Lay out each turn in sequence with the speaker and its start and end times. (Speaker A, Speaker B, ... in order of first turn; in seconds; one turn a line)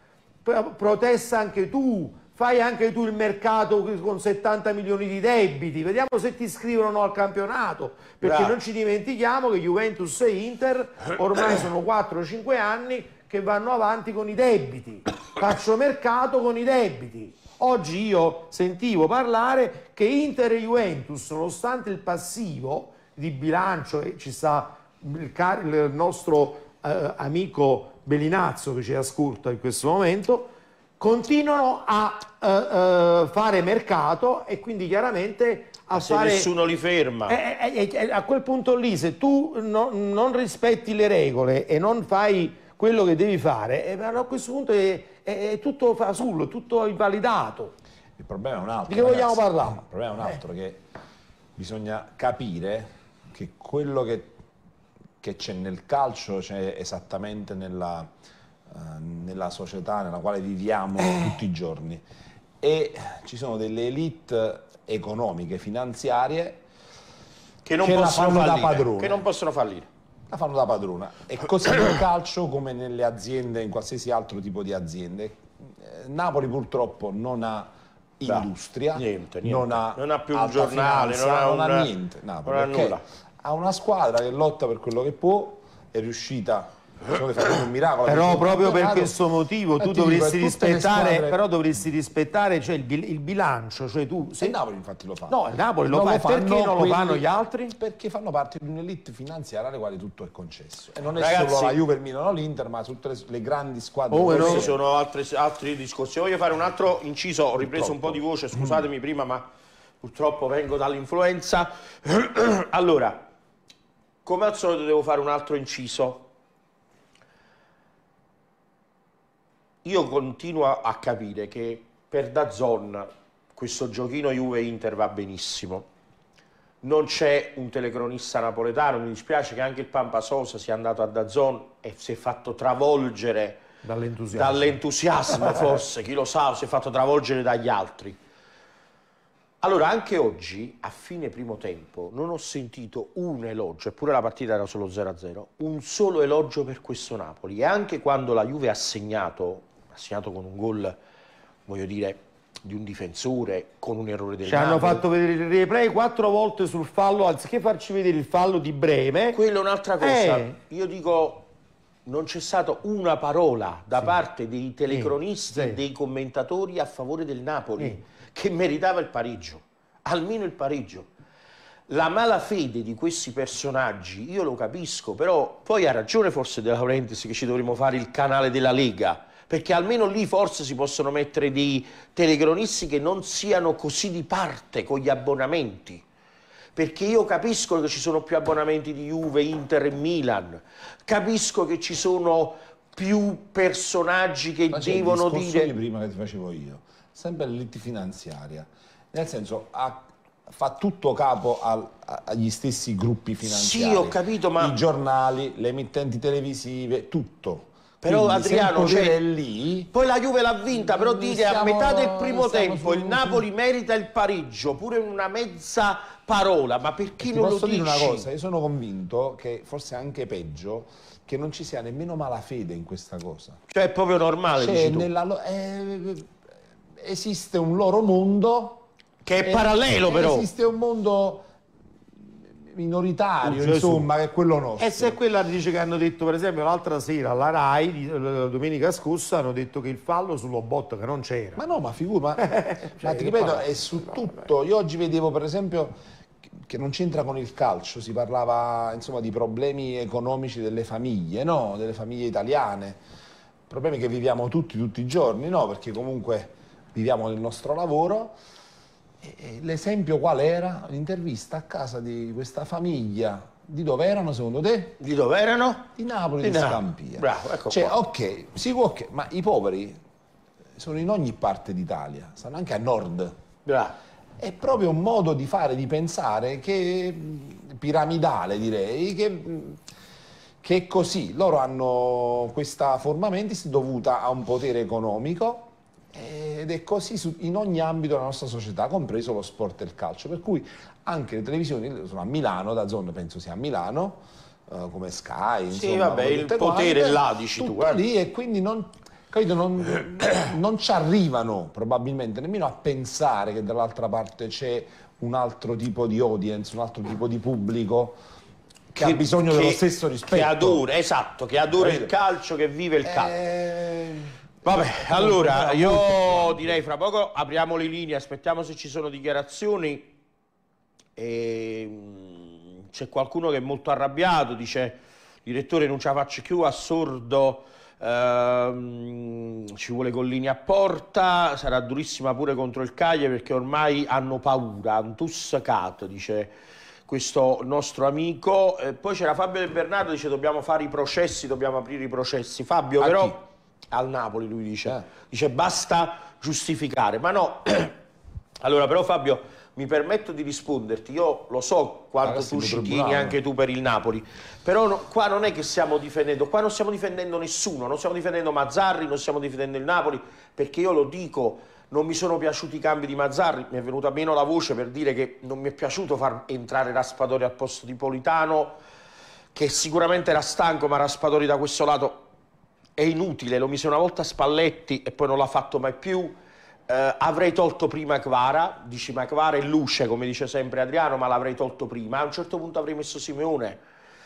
Speaker A: 0.4-36.5
Speaker B: 8.2-8.6
Speaker B: 35.9-37.4
Speaker A: 37.3-47.7
Speaker C: 48.2-50.8
Speaker A: 48.9-49.8
Speaker C: 51.5-54.3
Speaker C: 55.2-58.1
Speaker C: 58.7-62.0
Speaker C: 62.6-66.6
Speaker B: 67.6-69.9
Speaker C: 67.8-69.2
Speaker C: 70.3-89.1
Speaker B: 78.2-81.9
Speaker B: 82.4-83.0
Speaker A: 88.0-94.6
Speaker C: 89.8-91.4
Speaker C: 94.4-104.8
Speaker A: 95.3-97.8
Speaker B: 101.2-101.8
Speaker A: 104.1-104.7
Speaker B: 104.3-109.5
Speaker C: 107.6-108.8
Speaker B: 110.0-113.2
Speaker B: 114.2-116.3
Speaker B: 119.8-125.8
Speaker B: 126.8-133.6
Speaker A: 133.8-134.8
Speaker B: 134.3-138.2
Speaker B: 139.6-150.9
Speaker B: 151.7-155.0
Speaker A: 154.4-159.4
Speaker B: 159.3-161.4
Speaker A: 160.0-160.6
Speaker B: 162.1-171.1
Speaker A: 164.9-165.8
Speaker B: 171.9-186.0
Speaker B: 186.8-195.7
Speaker C: 194.7-209.9
Speaker B: 203.4-204.8
Speaker B: 208.0-209.2
Speaker B: 209.9-218.3
Speaker C: 210.7-213.4
Speaker C: 217.2-223.6
Speaker B: 223.7-225.1
Speaker C: 224.6-226.3
Speaker C: 227.0-228.8
Speaker B: 229.2-230.5
Speaker C: 229.4-231.5
Speaker C: 232.6-235.2
Speaker A: 233.4-234.1
Speaker A: 234.8-241.6
Speaker C: 241.6-245.9
Speaker A: 242.4-244.5
Speaker C: 246.6-253.0
Speaker C: 253.7-258.4
Speaker C: 259.2-265.0
Speaker B: 265.0-265.9
Speaker C: 265.9-270.0
Speaker B: 266.4-267.9
Speaker C: 270.8-273.4
Speaker B: 273.6-273.9
Speaker C: 274.4-279.8
Speaker C: 280.6-308.2
Speaker B: 295.7-298.0
Speaker C: 308.9-310.8
Speaker B: 308.9-313.4
Speaker C: 311.7-312.1
Speaker C: 313.0-316.8
Speaker B: 314.6-320.1
Speaker B: 321.1-336.5
Speaker B: 337.1-348.0
Speaker C: 343.0-343.4
Speaker B: 348.6-368.8
Speaker C: 352.2-353.4
Speaker B: 369.5-372.2
Speaker B: 373.0-376.4
Speaker B: 376.9-383.8